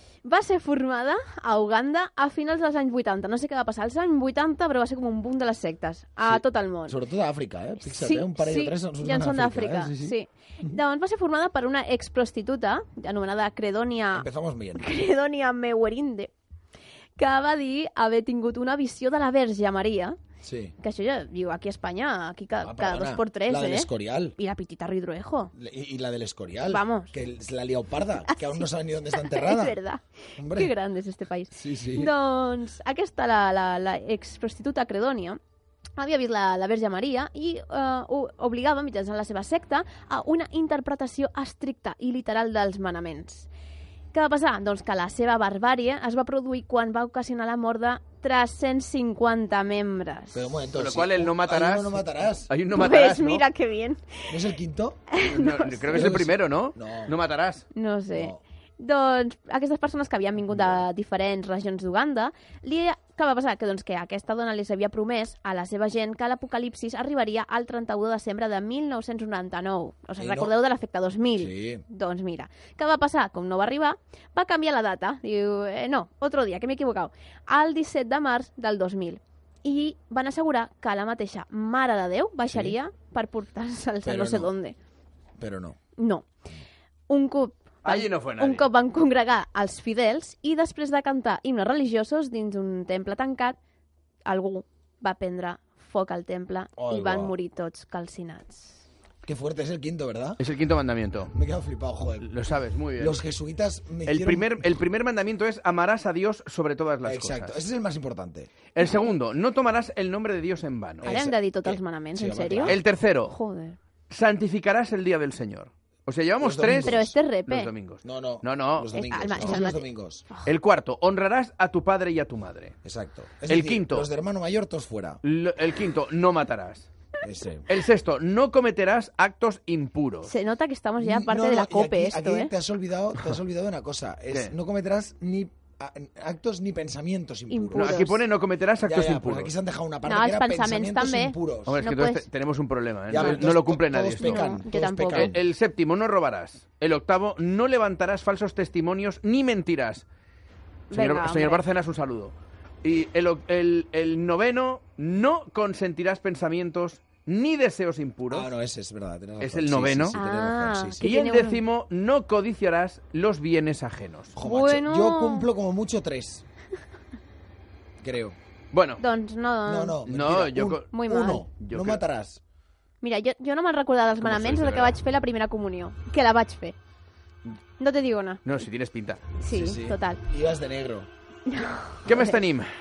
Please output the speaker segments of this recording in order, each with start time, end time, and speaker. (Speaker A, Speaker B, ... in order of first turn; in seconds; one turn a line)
Speaker A: 0.2-7.0
Speaker B: 6.2-10.8
Speaker A: 7.8-16.3
Speaker B: 14.1-14.9
Speaker A: 17.2-20.2
Speaker B: 20.4-20.7
Speaker A: 20.8-25.5
Speaker B: 22.6-24.4
Speaker B: 25.5-29.8
Speaker A: 26.7-27.1
Speaker A: 28.3-35.4
Speaker B: 30.4-30.7
Speaker B: 31.5-32.1
Speaker A: 36.0-43.5
Speaker A: 44.1-50.5
Speaker B: 50.3-52.5
Speaker C: 50.8-52.0
Speaker C: 52.5-53.5
Speaker A: 52.7-54.3
Speaker B: 54.3-55.0
Speaker A: 55.1-56.1
Speaker C: 55.2-57.6
Speaker B: 55.9-57.1
Speaker A: 57.7-84.8
Speaker B: 58.1-58.4
Speaker B: 70.2-70.5
Speaker B: 71.4-71.8
Speaker B: 82.5-82.8
Speaker B: 84.0-84.5
Speaker B: 85.4-85.8
Speaker A: 86.0-86.3
Speaker A: 87.1-93.6
Speaker C: 87.8-88.7
Speaker A: 94.2-98.8
Speaker B: 96.8-97.3
Speaker B: 99.2-100.4
Speaker C: 100.4-101.3
Speaker B: 101.3-102.3
Speaker C: 102.2-103.2
Speaker B: 103.0-104.7
Speaker C: 104.1-107.6
Speaker B: 107.0-108.5
Speaker C: 108.8-111.1
Speaker B: 111.0-112.8
Speaker A: 111.0-113.8
Speaker C: 112.7-113.3
Speaker C: 114.1-117.0
Speaker B: 116.4-117.2
Speaker A: 116.8-117.7
Speaker C: 117.5-119.6
Speaker B: 118.0-120.3
Speaker A: 118.9-120.5
Speaker C: 120.5-122.8
Speaker B: 122.8-125.2
Speaker C: 123.5-124.1
Speaker C: 125.2-126.9
Speaker B: 127.2-127.7
Speaker C: 127.7-130.3
Speaker A: 130.3-132.5
Speaker B: 131.0-138.1
Speaker A: 137.5-138.2
Speaker C: 137.8-139.5
Speaker B: 138.8-141.8
Speaker A: 140.1-142.3
Speaker C: 141.7-144.6
Speaker B: 143.1-145.4
Speaker A: 143.1-143.5
Speaker A: 144.2-145.3
Speaker C: 145.1-150.0
Speaker A: 150.9-151.6
Speaker C: 150.9-158.5
Speaker B: 158.3-161.0
Speaker C: 159.4-160.2
Speaker A: 160.2-161.6
Speaker C: 161.0-164.4
Speaker B: 164.3-166.4
Speaker A: 164.4-165.5
Speaker B: 168.0-168.4
Speaker C: 168.7-169.0
Speaker A: 169.0-170.0
Speaker B: 169.7-172.4
Speaker C: 170.0-170.9
Speaker A: 170.9-171.4
Speaker C: 171.6-172.0
Speaker A: 173.0-176.8
Speaker C: 174.2-175.0
Speaker A: 177.8-178.4
Speaker C: 178.4-179.2
Speaker A: 179.4-180.2
Speaker B: 179.5-181.1
Speaker A: 181.5-182.4
Speaker C: 182.1-182.7